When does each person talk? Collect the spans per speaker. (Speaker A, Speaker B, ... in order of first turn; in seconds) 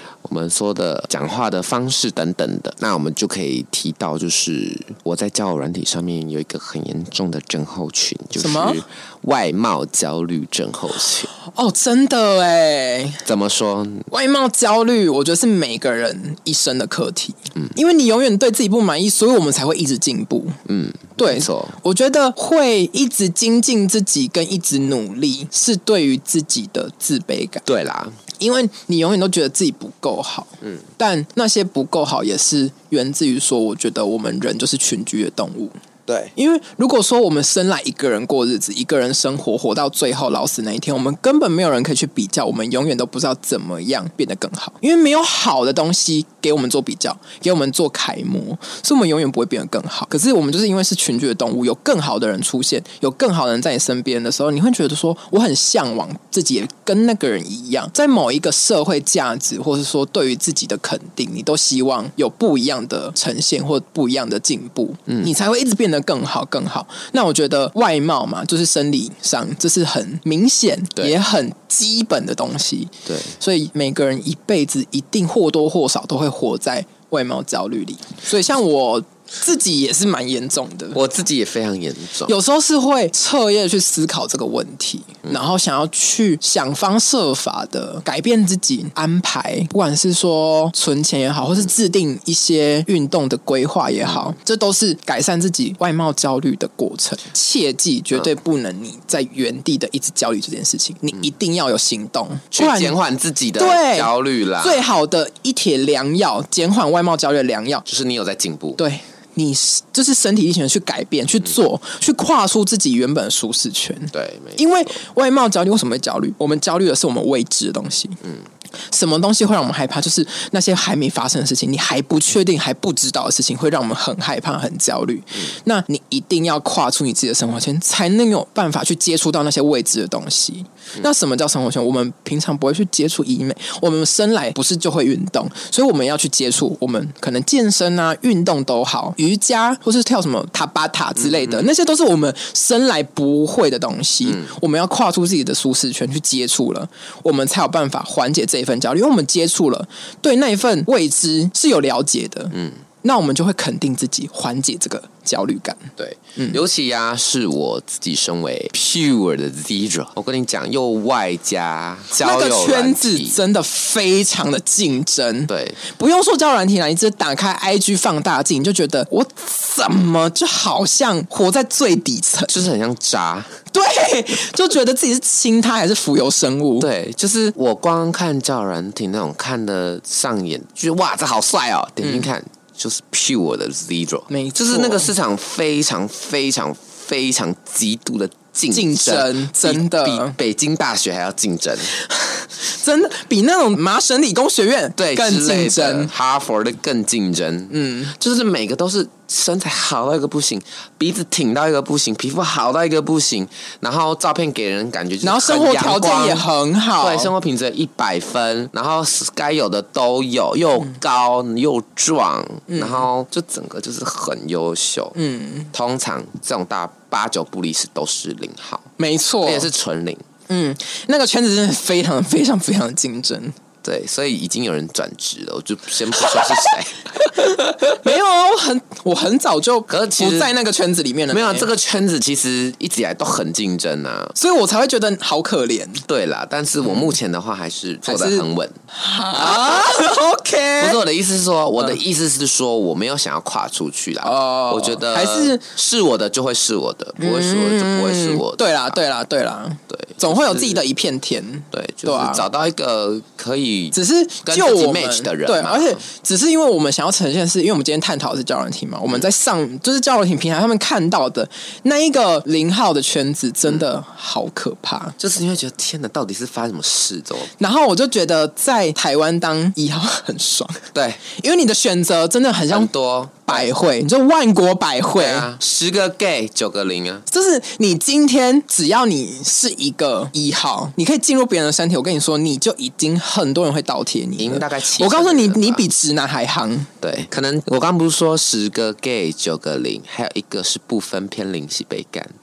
Speaker A: 0.2-11.3, 13.2-14.1, 20.6-21.8, 27.6-28.1, 36.1-36.3, 73.0-73.4, 80.9-82.3, 102.5-104.9, 107.8-108.8, 114.1-114.6, 141.2-141.6, 152.5-152.8, 156.0-163.4, 165.5-165.8, 172.5-173.5, 176.8-191.9, 195.0-206.5, 207.0-215.2, 215.7-218.9, 219.4-220.2, 223.8-228.1, 229.9-230.5, 231.3-234.3, 236.1-238.8, 239.3-239.9, 240.8-249.0, 249.9-250.8, 251.7-256.0, 265.2-267.5, 270.9-271.2, 272.7-273.7, 275.1-277.2, 284.4-285.8, 287.0-292.3
Speaker B: 8.3-8.8, 11.4-13.2, 14.1-20.6, 21.2-27.6, 28.4-35.7, 36.4-81.0, 82.3-103.0, 103.6-107.8, 108.8-118.2, 118.9-156.6, 162.1-172.7, 173.7-176.9, 182.0-182.3, 184.3-185.1, 188.7-190.3, 191.9-196.1, 197.7-198.1, 205.2-207.3, 212.7-213.1, 215.2-215.7, 219.0-219.7, 220.5-223.6, 226.2-226.7, 227.2-231.7, 234.3-236.0, 238.0-241.0, 244.2-245.6, 247.2-252.4, 253.9-265.1, 267.6-272.9, 273.5-275.5, 277.3-286.9